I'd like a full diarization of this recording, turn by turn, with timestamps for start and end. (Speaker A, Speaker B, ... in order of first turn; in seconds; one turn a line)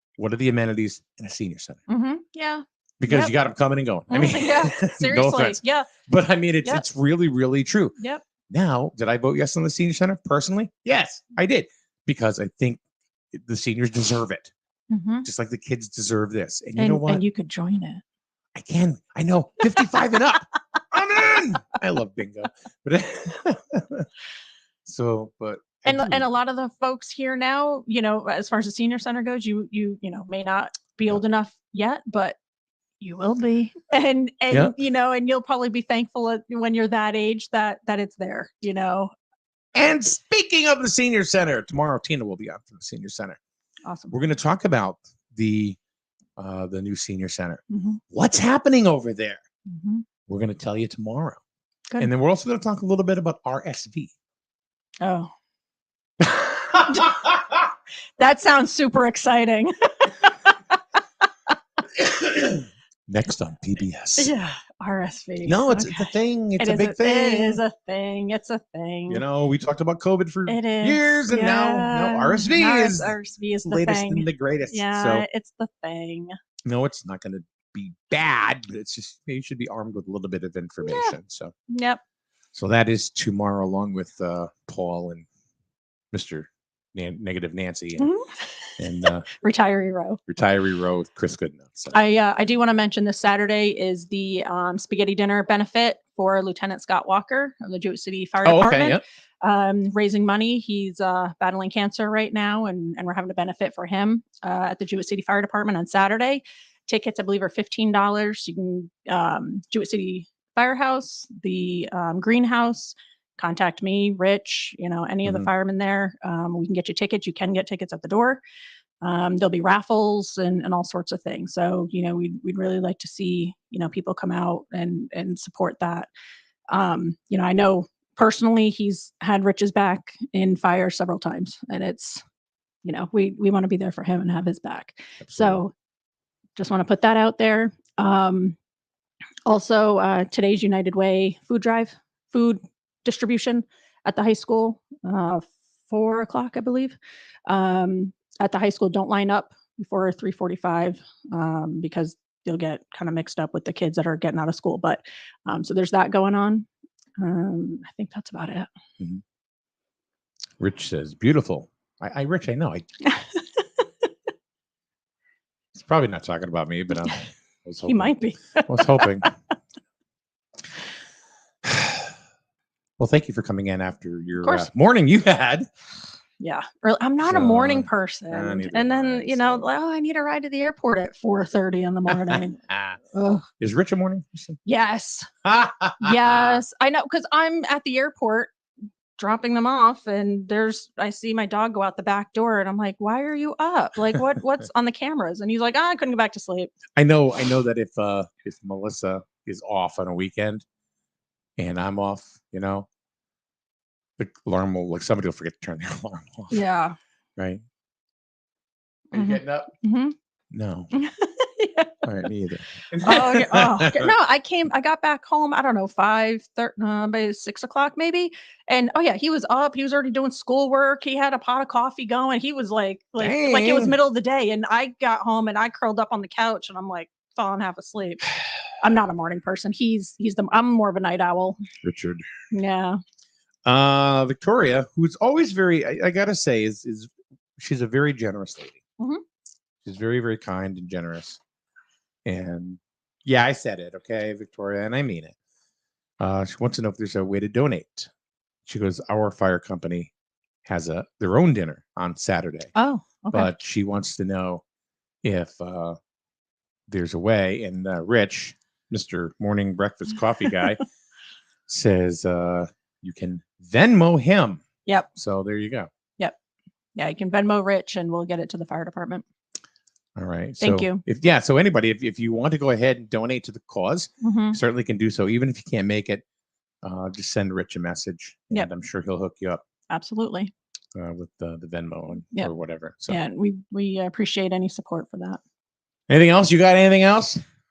Speaker A: 0.2-1.8
Speaker B: 1.9-3.3
Speaker A: 3.0-8.0
Speaker B: 4.1-5.9
Speaker A: 8.5-12.8
Speaker A: 13.3-14.5
Speaker B: 14.9-15.3
Speaker A: 15.2-17.2
Speaker B: 16.8-18.0
Speaker A: 18.6-24.1
Speaker B: 19.8-20.0
Speaker A: 24.9-26.3
Speaker B: 25.9-32.4
Speaker B: 33.0-39.1
Speaker A: 39.8-43.4
Speaker B: 43.9-44.1
Speaker A: 44.1-45.8
Speaker A: 46.4-47.6
Speaker B: 47.7-48.0
Speaker A: 48.1-49.4
Speaker B: 49.7-50.0
Speaker A: 50.3-51.4
Speaker A: 52.0-54.1
Speaker B: 55.0-55.3
Speaker A: 56.2-56.8
Speaker B: 56.9-57.2
Speaker B: 58.2-60.8
Speaker A: 62.0-64.3
Speaker B: 64.2-69.2
Speaker A: 65.5-67.6
Speaker A: 69.1-75.2
Speaker B: 70.5-76.3
Speaker A: 76.7-81.5
Speaker B: 80.8-81.2
Speaker B: 81.7-82.0
Speaker A: 82.5-85.3
Speaker A: 86.1-88.1
Speaker B: 88.0-88.7
Speaker A: 88.8-89.3
Speaker B: 89.3-90.2
Speaker A: 90.3-92.0
Speaker B: 91.9-118.4
Speaker A: 98.4-99.0
Speaker B: 119.0-126.1
Speaker B: 126.7-132.2
Speaker B: 132.8-135.7
Speaker A: 135.2-135.6
Speaker B: 136.6-138.6
Speaker B: 139.5-156.7
Speaker B: 157.2-158.7
Speaker A: 160.6-162.9
Speaker B: 163.1-163.4
Speaker A: 165.7-168.1
Speaker B: 167.9-169.3
Speaker A: 168.6-169.3
Speaker A: 171.7-172.1
Speaker A: 173.0-175.7
Speaker B: 174.4-174.7
Speaker B: 176.4-183.5
Speaker A: 177.2-179.7
Speaker A: 182.1-183.0
Speaker A: 183.6-184.6
Speaker B: 184.7-185.3
Speaker A: 185.4-186.6
Speaker B: 186.0-188.5
Speaker B: 189.2-196.7
Speaker A: 196.9-200.7
Speaker A: 201.6-202.9
Speaker A: 204.2-206.6
Speaker B: 206.5-207.0
Speaker A: 207.4-207.6
Speaker A: 209.1-209.7
Speaker B: 209.1-210.2
Speaker A: 210.5-210.9
Speaker B: 210.9-211.9
Speaker A: 212.0-214.1
Speaker B: 213.0-228.2
Speaker A: 223.2-223.9
Speaker B: 228.8-231.6
Speaker A: 231.8-232.2
Speaker B: 232.5-233.0
Speaker A: 233.7-238.8
Speaker A: 239.8-241.4
Speaker A: 242.2-245.3
Speaker A: 246.2-248.1
Speaker A: 248.7-250.1
Speaker A: 250.7-252.7
Speaker B: 252.8-253.5
Speaker A: 253.3-254.6
Speaker A: 255.2-256.0
Speaker A: 256.9-260.8
Speaker A: 261.7-264.6
Speaker A: 265.1-265.9
Speaker B: 267.0-269.2
Speaker A: 270.2-276.2
Speaker B: 270.6-271.0
Speaker B: 274.2-274.6
Speaker A: 276.8-279.6
Speaker B: 279.9-280.5
Speaker A: 280.9-283.2
Speaker B: 283.1-285.4
Speaker A: 286.1-287.4